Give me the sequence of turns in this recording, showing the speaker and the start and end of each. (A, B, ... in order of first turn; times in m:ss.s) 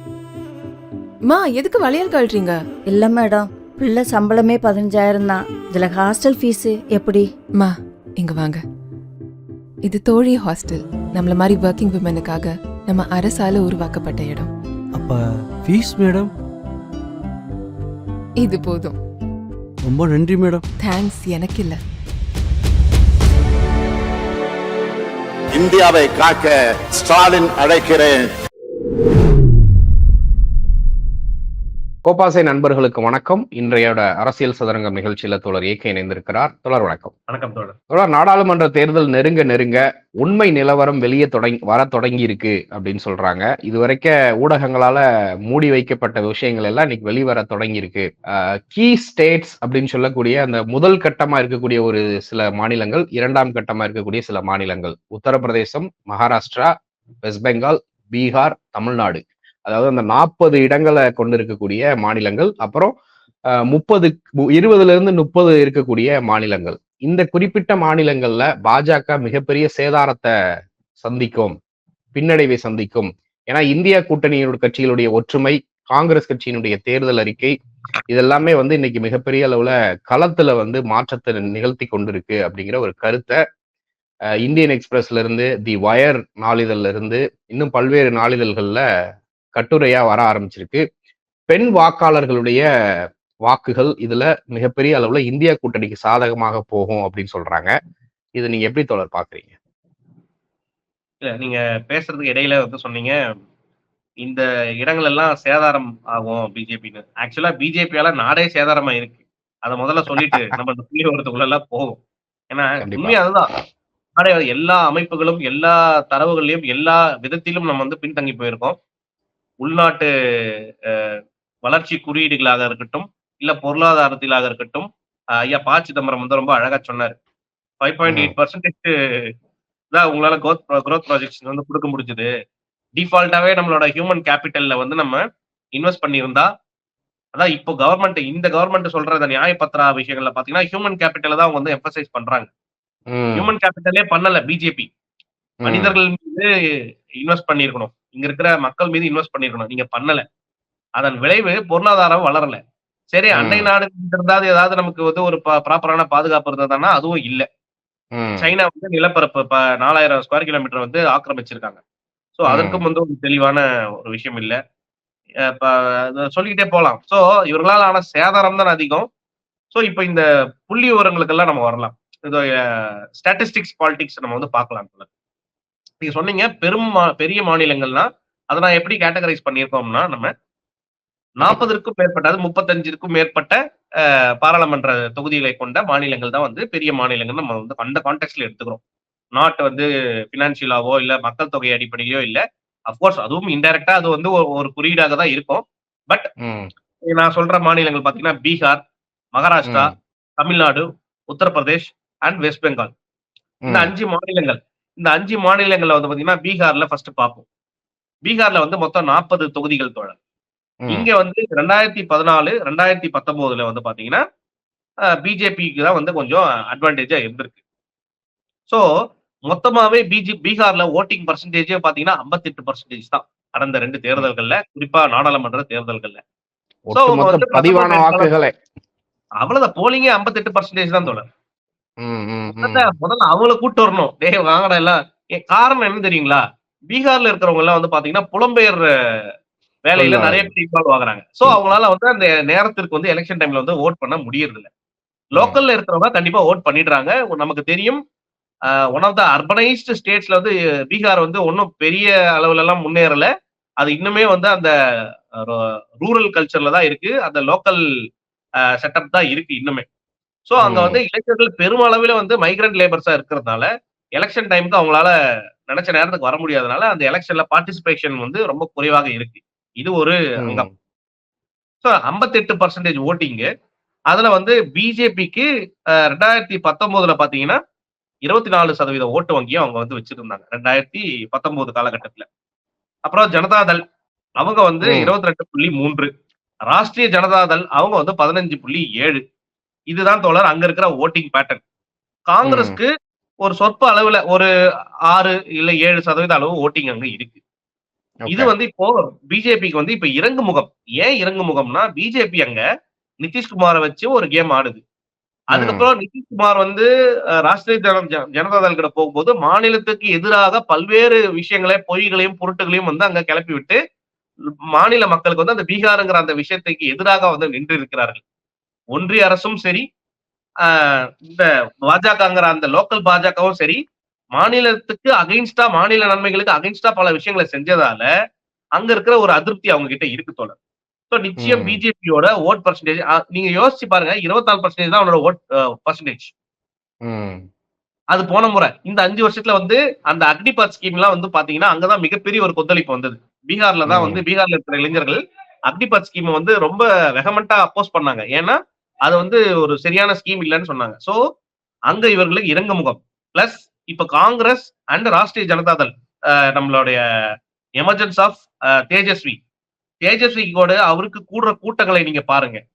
0:01.3-0:02.6 A
0:02.9-0:07.3 B
0:07.6-0:08.6 A
0:09.8-0:14.5 A
0:14.9-0:16.3 C
0:18.4-0:19.0 A
0:19.8-0:20.6 C
0:20.8-0:21.8 A
0:25.5-0:28.2 D
0:32.0-0:37.1 E
0:37.3-0:37.8 F
0:37.9-1:02.9 E
1:03.5-1:10.3 E
1:11.0-1:11.6 E
1:12.1-1:17.6 E
1:18.1-1:23.4 E
1:24.4-1:28.8 E
1:29.5-1:30.8 E
1:31.5-1:32.6 E
1:33.4-1:37.7 E
1:38.4-1:39.5 E
1:41.2-1:43.2 F
1:44.2-1:52.0 F
1:50.2-1:50.5 E
1:52.5-1:53.5 F
1:52.8-1:53.6 E
1:54.2-1:58.8 F
1:59.6-2:00.1 F
2:00.9-2:04.9 F
2:05.5-2:07.1 F
2:07.8-2:08.9 F
2:08.1-2:08.3 E
2:09.9-2:12.3 F
2:13.0-2:15.2 F
2:15.8-2:16.5 F
2:17.3-2:22.5 F
2:23.1-2:23.5 E
2:23.4-2:24.9 F
2:25.6-2:25.9 E
2:25.6-2:26.5 F
2:27.2-2:30.2 F
2:31.0-2:32.6 F
2:33.1-2:37.5 F
2:33.3-2:33.7 E
2:38.1-2:38.4 E
2:38.4-2:41.8 F
2:42.4-2:44.6 F
2:42.5-2:42.8 E
2:45.5-2:49.1 F
2:49.7-2:55.1 F
2:56.0-3:00.3 F
3:01.4-3:08.8 F
3:09.4-3:16.3 F
3:16.4-3:16.7 E
3:17.1-3:18.8 F
3:19.3-3:22.9 F
3:19.6-3:19.9 E
3:23.6-3:23.9 E
3:23.7-3:27.4 F
3:28.2-3:30.2 F
3:30.8-3:31.1 E
3:30.9-3:34.2 F
3:35.2-3:37.5 F
3:39.5-3:46.2 F
3:46.9-3:48.5 E
3:46.9-3:48.3 F
3:49.4-3:51.2 F
3:52.0-3:52.9 E
3:52.6-3:58.8 F
3:59.9-4:04.7 F
4:00.0-4:00.5 E
4:05.3-4:08.0 F
4:08.9-4:13.3 F
4:13.8-4:14.7 F
4:15.4-4:17.8 F
4:18.8-4:19.8 F
4:20.5-4:23.7 F
4:20.6-4:21.0 E
4:24.2-4:25.1 F
4:25.7-4:30.7 F
4:30.4-4:30.7 E
4:31.8-4:33.5 F
4:34.1-4:35.4 F
4:36.1-4:37.6 F
4:38.3-4:42.3 F
4:43.1-4:43.8 F
4:44.4-4:46.1 F
4:44.8-4:45.1 E
4:46.7-4:49.2 F
4:49.9-4:51.6 F
4:52.3-4:52.9 F
4:52.4-4:52.8 E
4:53.4-4:54.5 F
4:55.1-4:57.4 F
4:58.2-4:58.5 E
4:58.3-5:02.6 F
5:03.2-5:04.8 F
5:05.5-5:06.9 F
5:05.5-5:05.9 E
5:07.5-5:13.8 F
5:14.7-5:18.2 F
5:18.9-5:19.8 F
5:20.6-5:23.8 F
5:24.4-5:28.1 F
5:28.8-5:30.5 F
5:31.1-5:36.3 F
5:31.4-5:31.8 E
5:37.0-5:37.4 E
5:38.1-5:45.2 F
5:43.9-5:44.2 E
5:45.7-5:51.2 F
5:51.9-5:55.9 F
5:56.5-5:57.0 F
5:57.8-5:59.4 F
6:00.0-6:02.6 F